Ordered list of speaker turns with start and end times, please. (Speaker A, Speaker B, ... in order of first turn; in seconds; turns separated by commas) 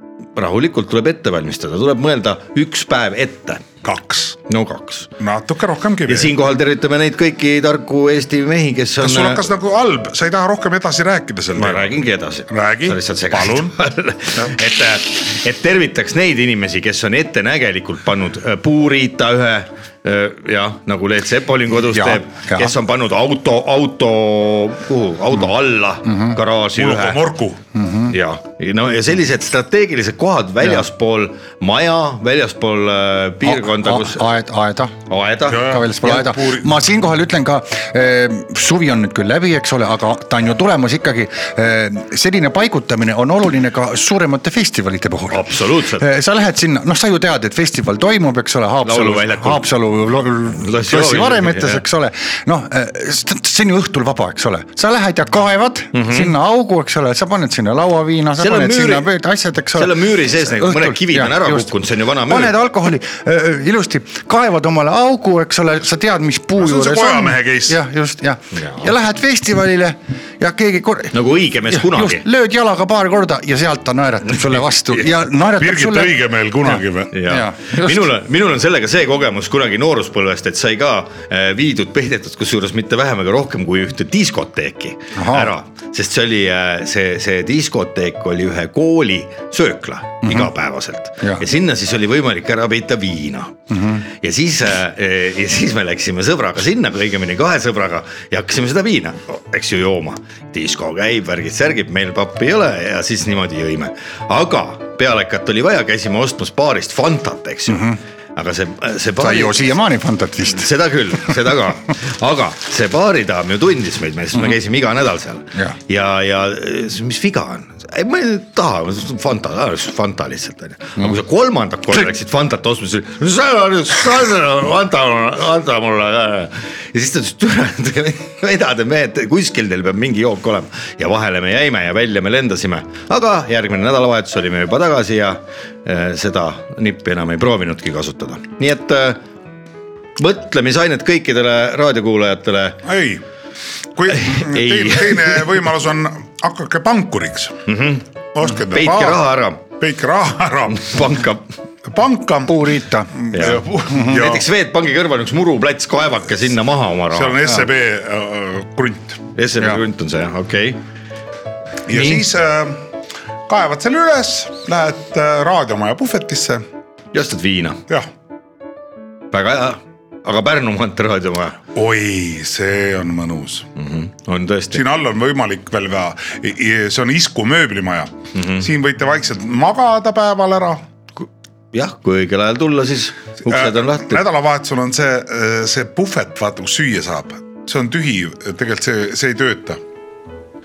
Speaker A: 0.3-3.6, Speaker B: 3.8-4.4, Speaker A: 4.5-5.1, Speaker B: 5.2-6.3, Speaker A: 6.1-9.5, Speaker B: 9.0-11.9, Speaker A: 11.6-27.2, Speaker B: 12.5-13.8, Speaker C: 21.9-22.7, Speaker C: 26.1-26.4, Speaker B: 26.7-27.6, Speaker C: 27.7-28.1, Speaker A: 28.1-34.3, Speaker C: 33.4-35.0, Speaker A: 35.1-35.7, Speaker B: 35.5-36.7, Speaker C: 35.5-61.7, Speaker A: 45.3-46.0, Speaker A: 48.8-49.7, Speaker A: 50.5-51.8, Speaker A: 55.9-56.3, Speaker A: 58.4-59.1, Speaker A: 59.7-62.5, Speaker C: 62.2-71.1, Speaker B: 66.6-67.8, Speaker A: 68.5-68.9, Speaker A: 71.1-72.2, Speaker C: 71.7-78.1, Speaker B: 75.6-77.1, Speaker A: 77.1-109.8, Speaker C: 85.2-85.5, Speaker C: 90.2-90.5, Speaker C: 93.7-94.0, Speaker C: 107.7-108.0, Speaker C: 109.2-110.7, Speaker A: 110.5-139.2, Speaker A: 140.2-142.8, Speaker B: 142.8-143.2, Speaker B: 143.9-147.7, Speaker A: 144.1-145.4, Speaker A: 147.7-148.0, Speaker B: 148.3-151.0, Speaker A: 148.7-149.6, Speaker A: 150.7-151.4, Speaker B: 151.8-152.6, Speaker C: 152.4-154.1, Speaker B: 153.2-154.4, Speaker A: 153.3-157.4, Speaker B: 157.1-159.2, Speaker A: 159.3-160.8, Speaker B: 161.9-162.8, Speaker C: 161.9-162.2, Speaker B: 163.5-166.6, Speaker A: 167.1-167.8, Speaker A: 169.3-171.6, Speaker B: 171.7-173.7, Speaker A: 173.8-174.8, Speaker B: 174.7-180.8, Speaker A: 178.3-178.7, Speaker A: 181.2-184.2, Speaker B: 183.5-189.8